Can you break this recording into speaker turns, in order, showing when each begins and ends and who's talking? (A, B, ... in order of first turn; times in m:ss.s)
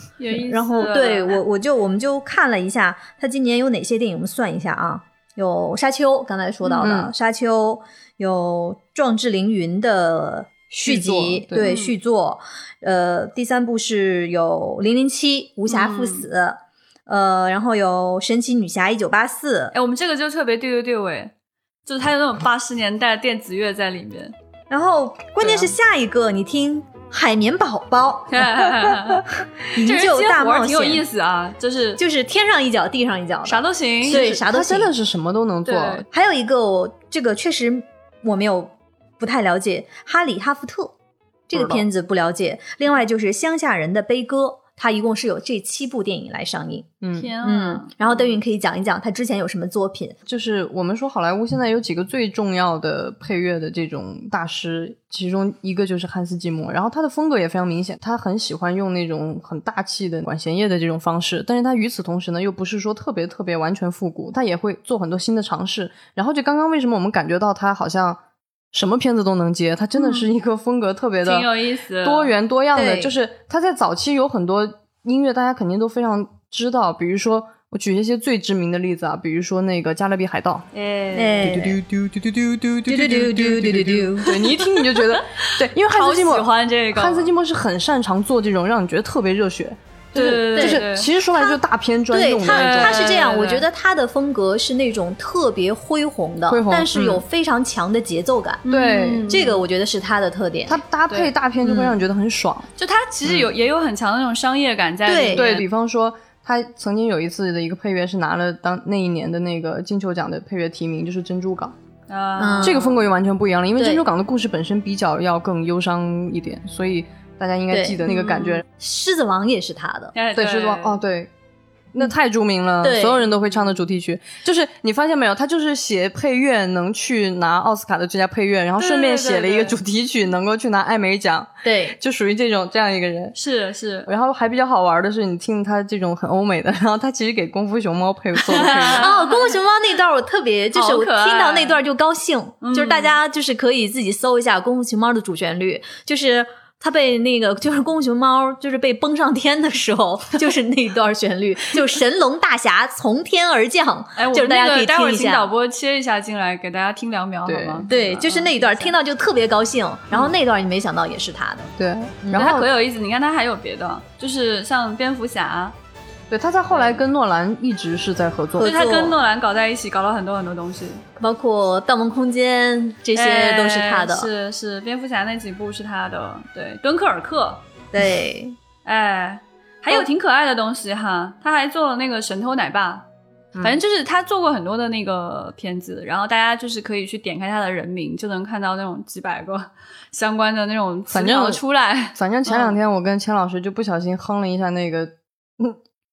0:00.2-0:01.4 A
0:00.5-0:19.7 B
0:06.8-0:07.1 C
0:10.8-0:11.7 C
0:11.6-0:12.0 A
0:15.7-0:16.3 A
0:19.7-0:21.3 A
0:21.9-0:24.3 A
0:24.7-0:28.6 B
0:28.3-0:32.0 A
0:29.7-0:31.0 B
0:32.0-0:34.9 B
0:33.4-0:34.3 A
0:34.0-0:36.1 C
0:35.7-0:36.0 A
0:36.1-0:40.9 B
0:41.5-0:46.9 B
0:41.5-0:41.8 C
0:47.0-0:47.3 C
0:47.1-0:48.4 A
0:47.4-0:50.2 B
0:50.3-1:08.2 C
1:08.7-1:11.5 C
1:10.0-1:10.3 A
1:11.2-1:12.3 A
1:12.0-1:20.7 C
1:12.7-1:13.1 B
1:20.7-1:21.5 A
1:21.1-1:21.8 B
1:21.4-1:33.2 C
1:22.9-1:24.4 B
1:24.3-1:27.3 A
1:30.1-1:31.1 A
1:30.6-1:30.8 B
1:32.1-1:38.6 B
1:32.4-1:33.6 A
1:36.5-1:37.2 C
1:38.6-1:39.6 A
1:38.7-1:39.3 C
1:39.3-1:40.8 B
1:40.7-1:42.7 C
1:41.6-1:42.0 B
1:42.8-1:45.7 A
1:43.2-1:43.5 C
1:45.0-1:45.5 B
1:45.3-1:51.8 C
1:52.1-1:53.0 A
1:52.4-1:52.8 B
1:52.6-1:58.6 C
1:53.8-1:54.0 B
1:57.7-1:58.0 B
1:58.0-1:58.6 A
1:58.8-2:00.2 B
2:00.2-2:01.0 A
2:00.4-2:01.3 C
2:01.9-2:13.4 C
2:02.8-2:03.3 B
2:08.8-2:09.8 A
2:11.6-2:12.0 B
2:13.4-2:14.1 A
2:14.1-2:19.1 C
2:18.4-2:19.6 A
2:18.6-2:35.5 B
2:20.7-2:21.8 A
2:22.6-2:23.2 A
2:34.2-2:39.0 A
2:37.5-2:37.9 C
2:37.9-2:42.6 B
2:41.8-2:42.7 C
2:42.3-2:45.8 A
2:46.3-2:48.7 C
2:46.7-2:47.0 A
2:48.6-2:49.2 B
2:48.6-2:51.0 A
2:51.2-2:54.3 B
2:53.1-2:57.6 A
2:57.9-2:58.6 B
2:58.8-3:03.1 A
3:03.6-3:03.8 C
3:03.6-3:12.8 A
3:11.1-3:11.6 C
3:12.2-3:15.8 C